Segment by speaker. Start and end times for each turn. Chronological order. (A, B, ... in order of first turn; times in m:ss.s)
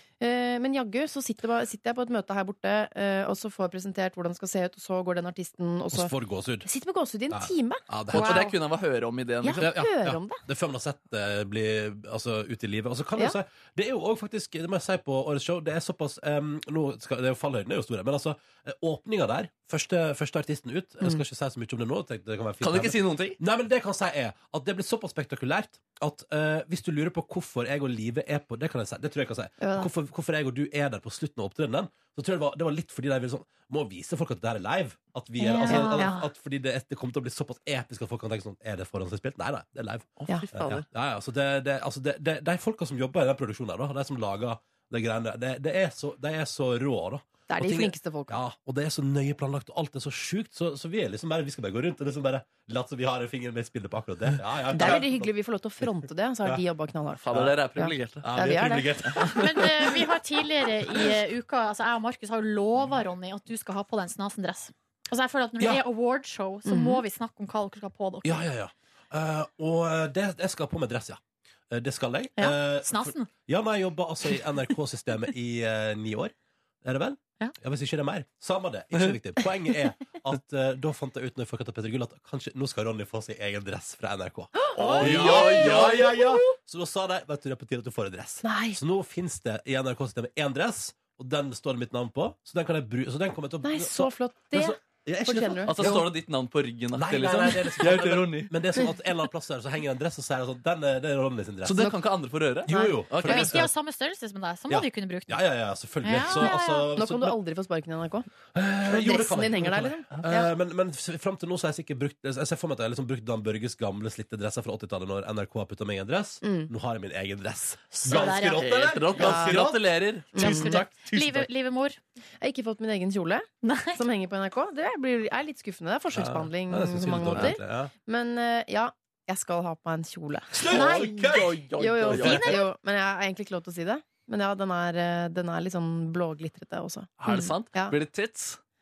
0:00.2-0:06.1 A
0:05.9-0:06.7 B
0:06.6-0:08.6 A
0:07.3-0:08.4 B
0:08.1-0:09.7 C
0:09.4-0:10.4 A
0:09.6-0:55.3 B
0:22.6-0:23.4 C
0:29.6-0:29.9 A
0:35.4-0:36.2 A
0:35.4-0:36.2 D
0:40.2-0:40.8 C
0:40.3-0:40.8 A
0:47.5-0:48.4 A
0:54.7-0:59.0 A
0:57.2-0:58.3 C
0:57.3-0:57.6 B
0:58.2-0:59.8 B
0:59.4-1:08.5 D
1:06.7-1:07.0 A
1:08.2-1:36.1 B
1:12.4-1:13.3 D
1:24.6-1:26.2 A
1:24.8-1:26.2 C
1:28.4-1:28.8 A
1:33.6-1:36.0 A
1:35.6-1:38.5 C
1:36.9-1:42.0 B
1:41.6-1:43.6 C
1:42.7-1:43.7 B
1:42.7-1:43.1 A
1:43.2-1:45.4 D
1:44.7-1:47.4 B
1:46.0-1:46.8 D
1:46.3-1:48.3 A
1:48.5-2:01.5 B
1:48.9-1:50.5 A
1:56.4-1:56.7 A
1:57.9-1:59.2 D
1:58.1-2:00.9 C
1:59.2-1:59.7 A
2:00.3-2:02.0 D
2:00.4-2:00.8 A
2:02.4-2:18.0 A
2:03.6-2:04.0 D
2:06.2-2:07.9 B
2:10.5-2:11.5 B
2:10.6-2:12.6 C
2:12.1-2:12.5 B
2:12.2-2:12.6 D
2:17.2-2:18.6 C